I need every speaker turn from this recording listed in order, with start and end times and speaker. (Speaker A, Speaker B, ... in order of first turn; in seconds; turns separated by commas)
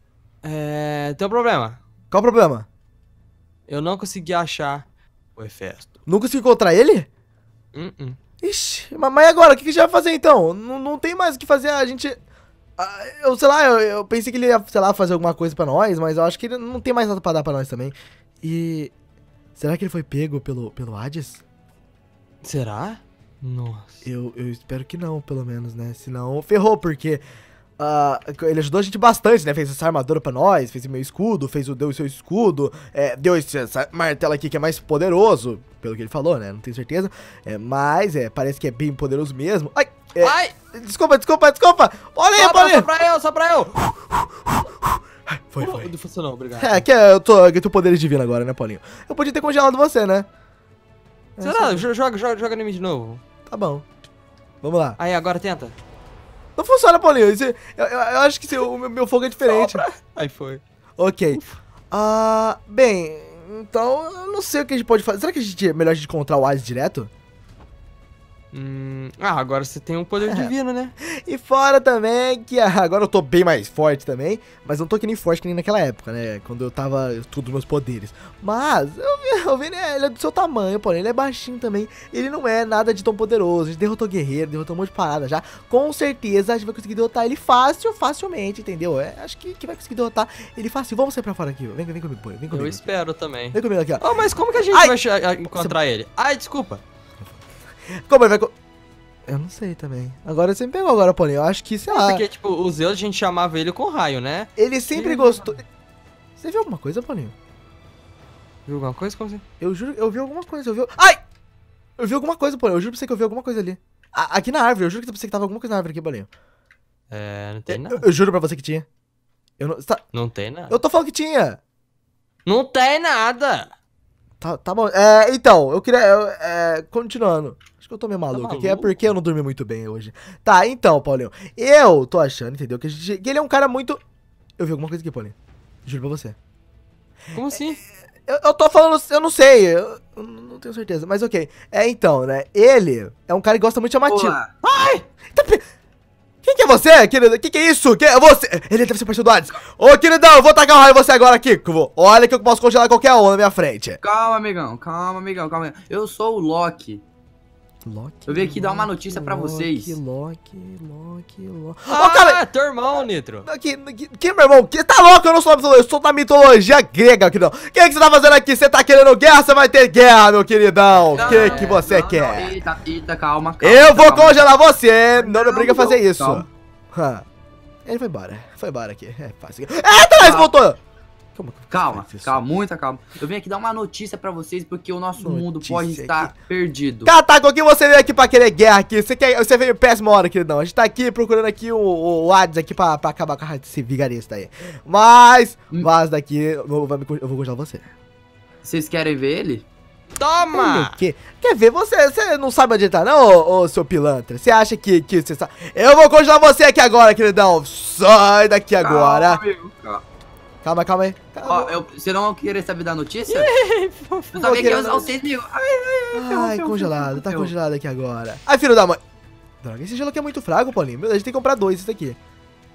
Speaker A: 0.4-1.8, Speaker B: 2.1-2.6, Speaker A: 3.7-4.8, Speaker A: 5.3-5.9, Speaker B: 6.0-7.1, Speaker A: 7.7-8.2, Speaker B: 8.4-12.2, Speaker B: 12.8-18.9, Speaker B: 19.6-21.4, Speaker A: 22.4-24.0, Speaker B: 24.0-27.2, Speaker B: 27.8-42.9, Speaker A: 40.2-40.5, Speaker A: 42.4-43.8, Speaker B: 43.9-45.9, Speaker A: 45.6-46.8, Speaker B: 46.5-50.2, Speaker B: 51.4-51.9, Speaker A: 51.4-53.2, Speaker B: 53.5-53.8, Speaker B: 54.6-55.0, Speaker A: 55.0-55.8, Speaker B: 56.5-59.8, Speaker A: 59.4-60.6, Speaker B: 61.0-67.1, Speaker A: 68.5-70.9, Speaker B: 70.2-92.8, Speaker A: 92.5-96.8, Speaker B: 93.5-94.0, Speaker B: 97.2-98.5, Speaker B: 99.3-102.2, Speaker A: 101.9-105.6, Speaker B: 104.6-105.6, Speaker B: 106.4-107.3, Speaker A: 108.7-109.4, Speaker B: 109.6-111.2, Speaker B: 112.0-116.3, Speaker A: 117.1-118.0, Speaker B: 117.7-118.8, Speaker B: 119.6-120.0, Speaker A: 120.1-120.8, Speaker B: 120.7-121.6, Speaker A: 122.5-123.7, Speaker B: 124.4-134.0, Speaker A: 128.3-129.1, Speaker B: 134.6-136.3, Speaker A: 137.3-137.8, Speaker B: 137.5-144.4, Speaker C: 144.1-144.5, Speaker A: 144.6-145.0, Speaker B: 145.3-145.6, Speaker B: 146.4-154.0, Speaker C: 154.0-157.0, Speaker B: 157.8-162.4, Speaker C: 158.2-160.0, Speaker A: 161.9-163.4, Speaker B: 163.4-172.5, Speaker A: 171.1-171.8, Speaker C: 171.2-174.5, Speaker B: 173.6-177.2, Speaker C: 175.1-176.5, Speaker B: 177.8-180.8, Speaker C: 180.2-180.5, Speaker B: 181.3-182.4, Speaker C: 181.7-187.1, Speaker B: 185.2-186.3, Speaker B: 187.0-197.9, Speaker C: 198.6-199.7, Speaker A: 200.2-201.0, Speaker B: 200.5-209.4, Speaker C: 208.8-210.0, Speaker B: 210.6-211.8, Speaker C: 211.4-213.5, Speaker A: 213.3-214.9, Speaker C: 214.3-217.5, Speaker B: 214.4-215.1, Speaker B: 216.1-219.0, Speaker B: 219.6-222.2